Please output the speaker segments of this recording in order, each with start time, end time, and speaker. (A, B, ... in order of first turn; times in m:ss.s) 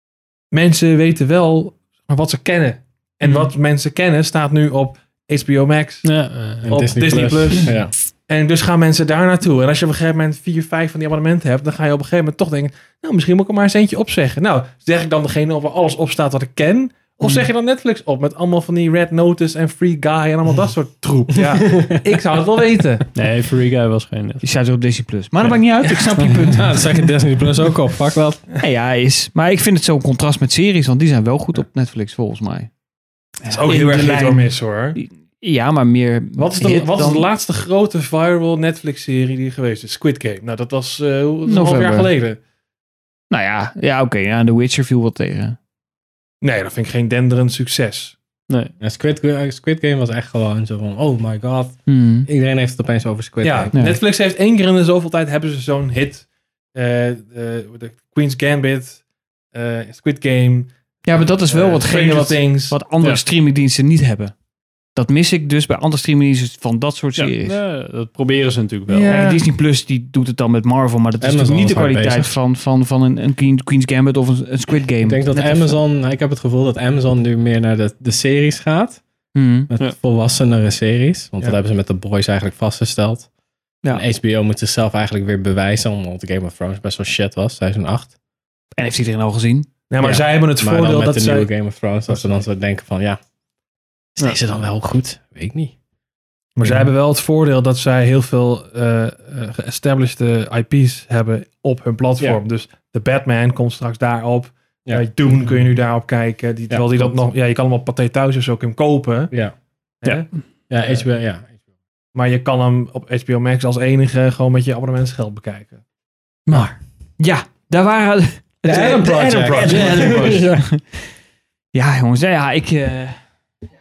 0:00.5-0:06.1 A
0:06.0-0:07.7 B
0:06.6-0:07.9 C
0:06.6-0:23.1 A
0:17.2-0:17.5 D
0:21.3-0:22.0 C
0:23.2-0:24.4 B
0:24.4-0:26.8 D
0:26.5-0:28.4 C
0:28.6-0:32.7 D
0:33.4-0:37.3 D
0:33.5-0:35.0 A
0:36.4-0:42.4 A
0:41.5-0:42.1 D
0:43.3-0:45.6 D
0:46.4-0:48.2 A
0:48.8-0:53.7 C
0:51.9-0:52.3 D
0:53.4-0:59.0 A
0:53.7-0:54.0 D
0:59.5-1:00.7 A
1:01.0-1:04.3 D
1:01.4-1:02.8 A
1:05.0-1:07.6 D
1:07.2-1:09.2 B
1:08.9-1:09.4 A
1:09.1-1:15.8 D
1:11.2-1:12.3 C
1:15.0-1:19.0 C
1:19.4-1:19.7 D
1:19.7-1:23.3 C
1:23.9-1:28.1 C
1:28.8-1:29.7 D
1:29.9-1:31.5 A
1:30.0-1:33.2 C
1:32.1-1:32.4 A
1:34.2-1:35.7 C
1:36.6-1:49.3 A
1:36.6-1:36.9 C
1:44.9-1:45.6 C
1:46.7-1:47.2 C
1:50.0-1:51.0 A
1:50.7-1:51.5 C
1:52.1-1:55.8 A
1:56.5-1:56.8 B
1:57.2-2:01.0 D
1:58.6-2:00.7 C
1:58.7-2:00.2 A
1:59.7-2:00.4 B
2:01.7-2:03.2 D